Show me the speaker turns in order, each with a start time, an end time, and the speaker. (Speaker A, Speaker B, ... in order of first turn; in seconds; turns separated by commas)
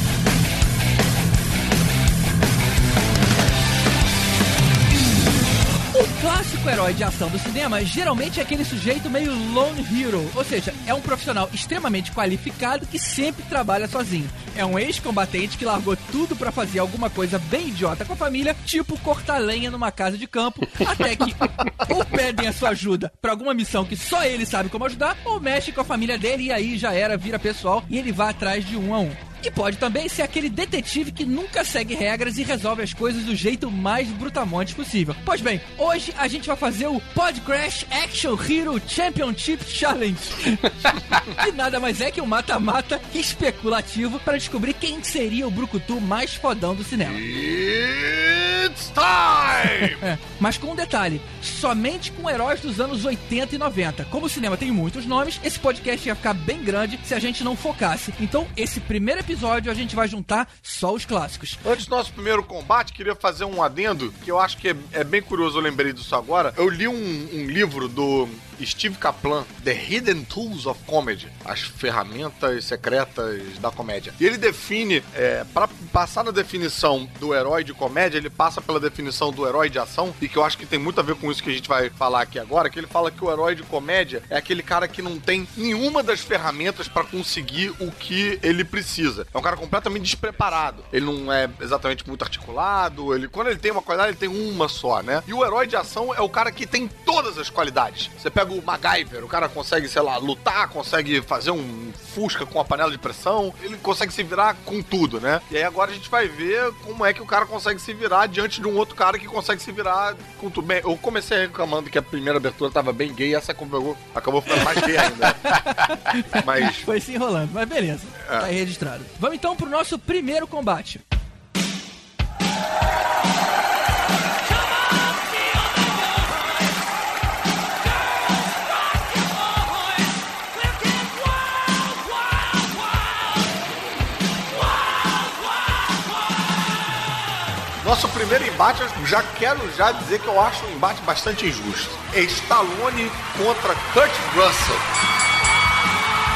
Speaker A: 5.9-47.2, Speaker B: 47.0-50.1, Speaker A: 50.0-61.6, Speaker B: 61.6-116.9, Speaker A: 114.7-121.0, Speaker B: 118.2-118.5, Speaker B: 137.8-144.9